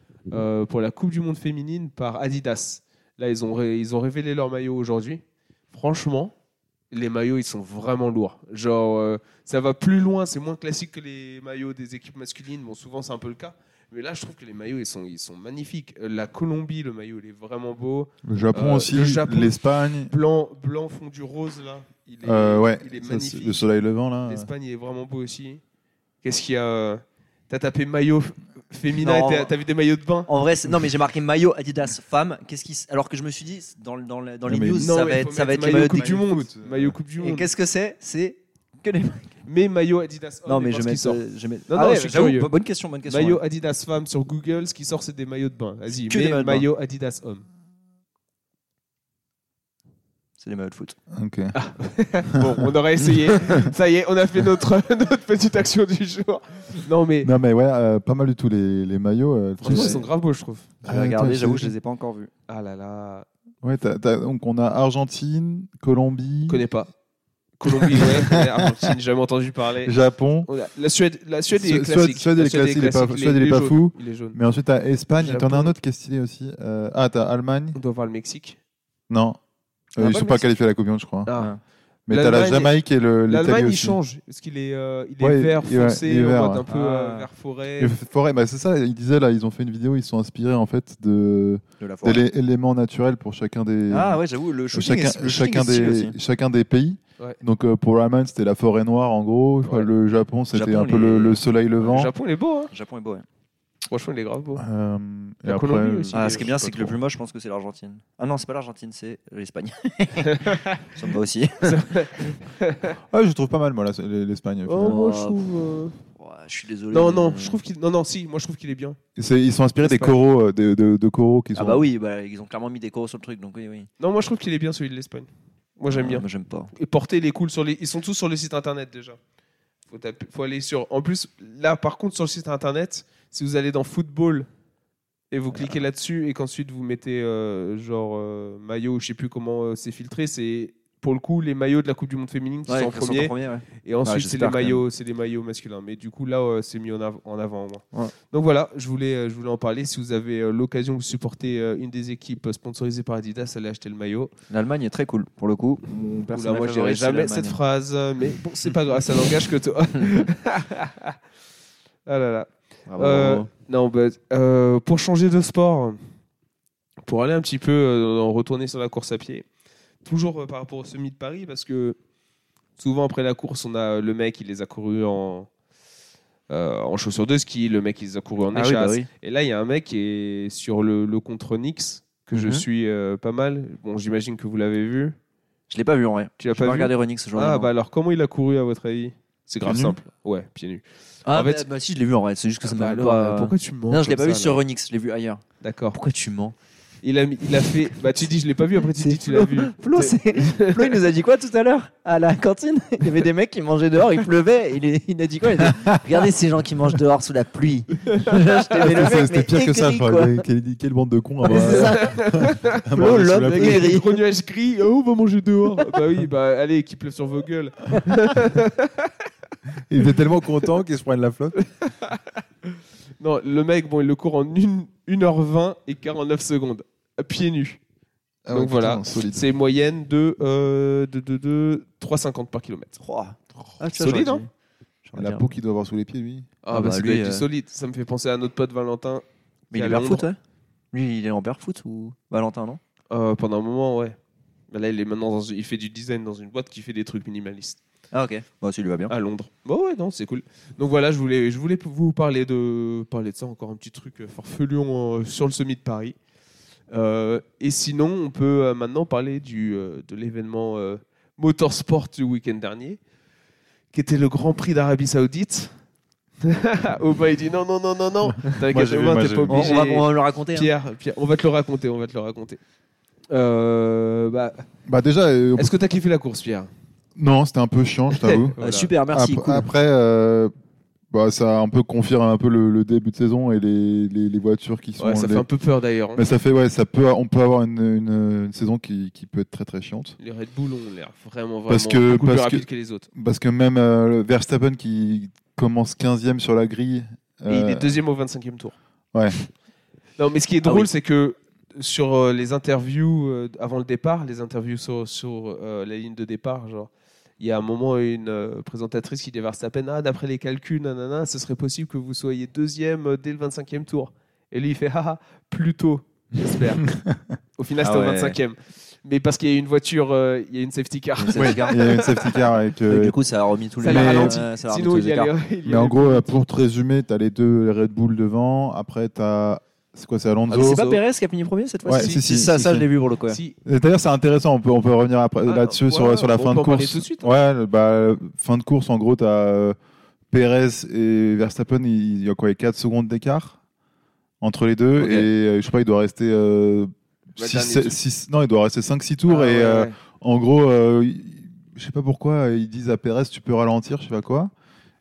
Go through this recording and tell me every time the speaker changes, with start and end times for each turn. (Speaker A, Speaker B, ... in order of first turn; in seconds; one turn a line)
Speaker A: 0.3-6.3
Speaker A: 6.9-23.6
Speaker B: 18.2-20.1
Speaker B: 22.2-24.5
Speaker A: 24.3-25.6
Speaker A: 26.2-30.3
Speaker C: 28.9-29.5
Speaker C: 30.3-36.2
Speaker B: 34.5-35.1
Speaker A: 34.8-37.5
Speaker B: 35.6-37.0
Speaker C: 37.2-39.4
Speaker A: 39.5-42.5
Speaker C: 40.5-43.4
Speaker A: 43.1-47.5
Speaker C: 46.1-46.7
Speaker C: 50.4-51.0
Speaker B: 51.1-51.5
Speaker A: 51.5-57.3
Speaker B: 52.3-52.7
Speaker B: 53.3-53.7
Speaker B: 57.2-60.0
Speaker A: 59.6-60.7
Speaker C: 59.6-60.0
Speaker B: 60.8-61.7
Speaker C: 60.8-62.3
Speaker A: 62.5-63.3
Speaker B: 63.6-66.6
Speaker A: 66.5-66.9
Speaker A: 67.6-74.4
Speaker B: 67.7-68.9
Speaker B: 69.8-70.5
Speaker B: 71.5-77.8
Speaker A: 75.2-75.7
Speaker A: 77.7-78.6
Speaker B: 79.1-79.4
Speaker B: 80.0-81.3
Speaker A: 80.0-80.4
Speaker A: 81.3-81.5
Speaker C: 81.3-81.6
Speaker B: 82.1-84.0
Speaker A: 82.1-82.7
Speaker A: 83.3-87.9
Speaker B: 85.2-86.7
Speaker C: 86.7-87.3
Speaker B: 87.8-94.2
Speaker C: 91.8-92.2
Speaker C: 93.9-96.2
Speaker B: 94.7-102.1
Speaker C: 100.5-101.4
Speaker A: 101.8-102.7
Speaker C: 102.7-103.2
Speaker A: 103.9-104.6
Speaker B: 104.6-107.0
Speaker A: 105.4-106.5
Speaker C: 106.1-112.1
Speaker A: 110.3-110.8
Speaker A: 111.6-113.0
Speaker B: 113.1-115.0
Speaker A: 114.7-115.9
Speaker C: 114.8-115.4
Speaker C: 116.1-117.6
Speaker A: 116.9-119.0
Speaker B: 119.2-121.9
Speaker A: 119.8-120.2
Speaker C: 121.5-123.9
Speaker A: 124.0-129.2
Speaker C: 125.9-126.7
Speaker A: 129.9-134.5
Speaker A: 135.3-154.3
Speaker C: 142.7-144.8
Speaker C: 154.5-157.6
Speaker A: 156.3-161.2
Speaker A: 162.1-166.0
Speaker C: 162.9-163.5
Speaker A: 167.1-169.4
Speaker A: 170.1-172.0
Speaker A: 172.8-175.5
Speaker A: 176.5-185.2
Speaker C: 178.5-179.1
Speaker C: 182.3-182.7
Speaker C: 185.7-187.7
Speaker A: 186.4-191.7
Speaker B: 189.6-189.9
Speaker C: 191.3-196.6
Speaker A: 192.6-194.6
Speaker A: 195.6-196.0
Speaker A: 197.0-201.0
Speaker C: 198.9-210.4
Speaker B: 205.6-206.2
Speaker A: 208.1-208.9
Speaker B: 208.8-213.9
Speaker C: 211.4-212.2
Speaker A: 211.5-219.1
Speaker C: 212.9-214.2
Speaker B: 219.9-221.6
Speaker A: 221.6-227.8
Speaker B: 228.4-229.4
Speaker A: 228.5-233.0
Speaker C: 233.0-234.5
Speaker A: 233.9-234.4
Speaker C: 235.1-235.4
Speaker B: 235.2-236.5
Speaker A: 236.6-240.3
Speaker C: 236.7-237.4
Speaker C: 239.7-240.4
Speaker C: 240.9-242.8
Speaker A: 243.1-244.2
Speaker A: 244.7-247.8
Speaker C: 248.1-249.1
Speaker A: 249.1-256.1
Speaker A: 256.9-263.0
Speaker A: 263.9-265.7
Speaker A: 266.4-272.6
Speaker B: 268.5-269.8
Speaker C: 269.5-270.7
Speaker A: 273.3-274.6
Speaker B: 274.9-275.7
Speaker A: 275.6-276.7
Speaker B: 277.2-278.6
Speaker A: 278.1-278.9
Speaker C: 278.6-279.7
Speaker B: 279.1-280.5
Speaker B: 281.1-285.4
Speaker A: 285.0-286.2
Speaker B: 286.1-290.1
Speaker A: 290.2-293.1
Speaker B: 291.7-297.9
Speaker A: 297.5-298.8
Speaker A: 300.2-316.9
Speaker C: 300.6-300.9
Speaker B: 316.9-317.2
Speaker A: 317.6-322.5
Speaker C: 317.8-318.4
Speaker C: 321.2-322.0
Speaker B: 321.4-323.1
Speaker C: 322.9-325.3
Speaker A: 323.8-326.3
Speaker B: 323.9-324.4
Speaker B: 325.6-330.9
Speaker C: 330.5-333.4
Speaker A: 330.6-331.0
Speaker B: 331.9-332.9
Speaker A: 331.9-332.7
Speaker A: 333.3-333.6
Speaker B: 333.6-339.8
Speaker A: 335.4-337.3
Speaker B: 340.3-343.6
Speaker B: 344.4-354.5
Speaker C: 345.0-345.2
Speaker A: 347.4-348.0
Speaker C: 349.3-349.9